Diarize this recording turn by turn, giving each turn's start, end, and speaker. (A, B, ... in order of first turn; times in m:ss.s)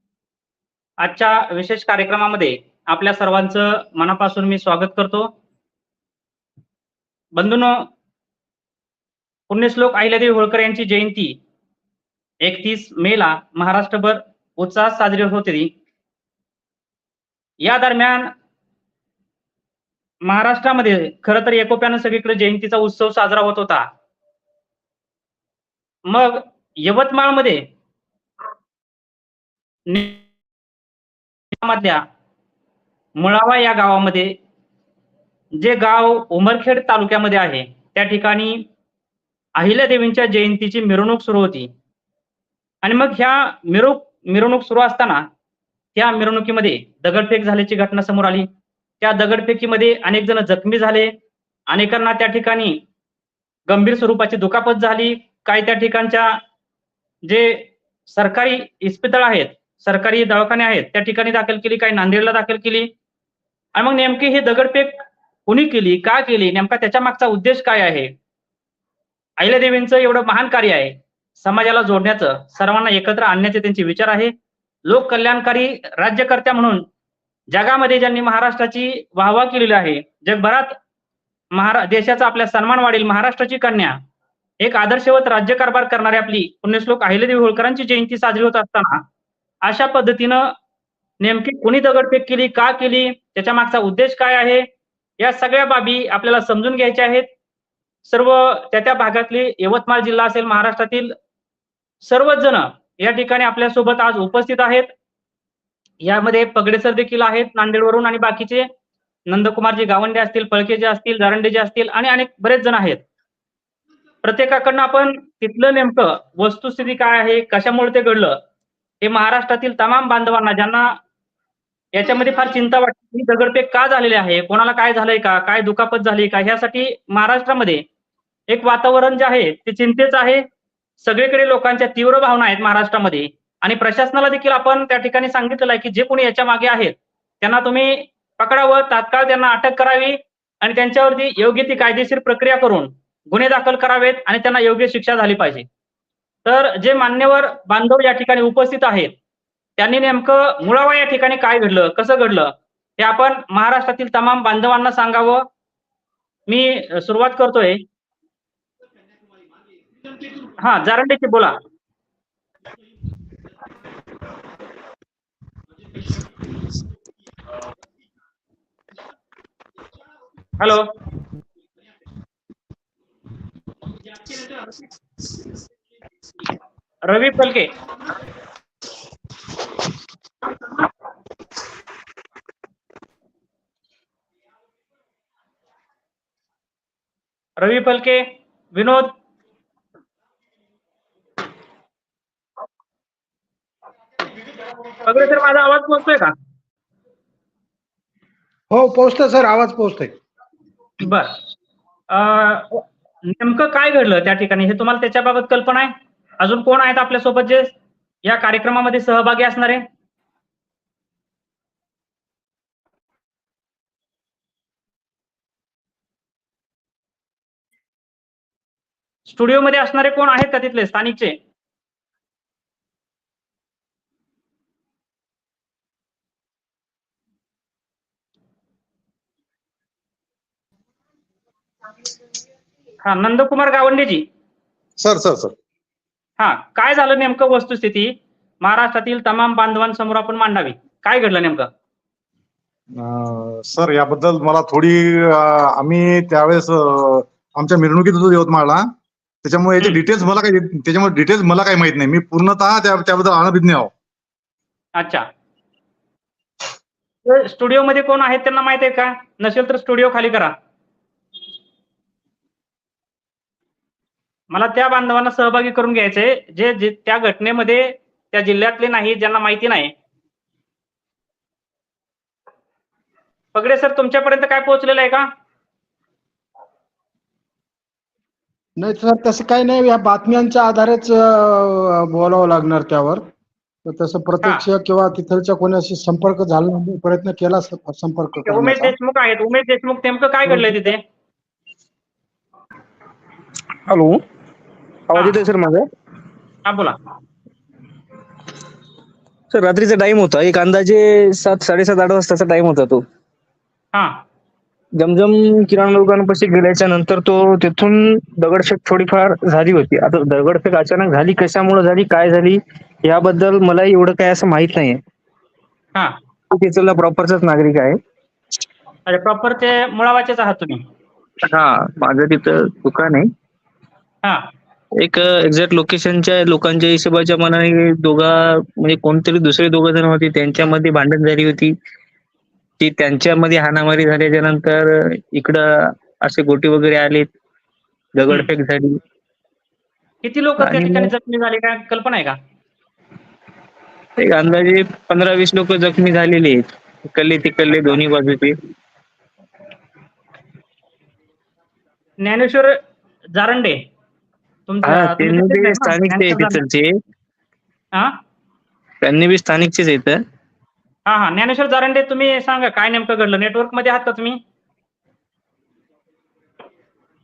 0:01.0-0:05.3 A
0:07.4-0:07.9 A
0:09.5-0:11.4 A
0:12.4-0:15.7 A
0:17.6-0:18.3 A
0:20.2-0:23.9 A
0:26.1-0:27.6 A
0:29.9-0:30.2 A
0:31.5-0:32.0 A
0:33.2-0:34.4 A
0:35.6-0:38.6 A
0:39.6-0:41.7 A
0:42.8-0:45.3 A
0:46.0-0:48.5 A
0:49.0-0:51.1 A
0:51.7-0:52.8 A
0:53.7-0:56.4 A
0:57.3-1:02.9 A
1:03.8-1:08.1 A
1:09.4-1:14.3 A
1:14.9-1:16.8 A
1:17.5-1:20.8 A
1:21.5-1:24.0 A
1:24.6-1:29.0 A
1:29.6-1:30.6 A
1:31.2-1:34.7 A
1:35.2-1:37.3 A
1:38.0-1:41.2 A
1:42.0-1:44.9 A
1:46.0-1:48.7 A
1:49.3-1:53.0 A
1:54.2-1:58.4 A
1:59.0-2:01.0 A
2:01.9-2:07.8 A
2:08.5-2:10.4 A
2:11.0-2:25.7 A
2:26.5-2:29.2 A
2:29.8-2:35.5 A
2:36.5-2:37.8 A
2:40.6-2:41.6 A
2:50.6-2:50.9 A
2:57.1-2:57.7 A
3:07.6-3:09.1 A
3:15.0-3:16.3 A
3:18.7-3:20.2 B
3:21.0-3:21.4 A
3:22.1-3:27.7 A
3:28.2-3:29.8 A
3:39.3-3:41.4 A
3:53.0-3:54.3 A
3:55.0-3:55.6 C
3:56.4-4:01.7 A
4:03.0-4:08.9 C
4:09.4-4:13.9 C
4:15.0-4:15.3 A
4:17.3-4:20.5 A
4:24.5-4:29.9 A
4:33.6-4:35.3 A
4:38.8-4:43.2 B
4:43.8-4:49.0 B
4:48.4-4:51.0 A
4:53.9-4:54.2 D
4:55.1-4:55.8 D
4:55.2-4:55.4 A
4:56.6-4:57.0 A
4:59.5-5:03.0 D
5:03.9-5:04.2 A
5:05.0-5:15.0 D
5:16.5-5:18.0 D
5:19.1-5:20.8 A
5:21.4-5:23.3 D
5:25.0-5:31.7 D
5:32.8-5:37.3 D
5:38.2-5:39.0 D
5:40.2-5:42.4 A
5:40.6-5:41.1 D
5:44.2-5:48.6 D
5:52.2-5:52.8 A
5:53.4-5:53.8 A
5:54.7-5:56.6 A
5:54.8-5:57.0 D
5:59.0-6:00.2 D
6:01.1-6:04.4 A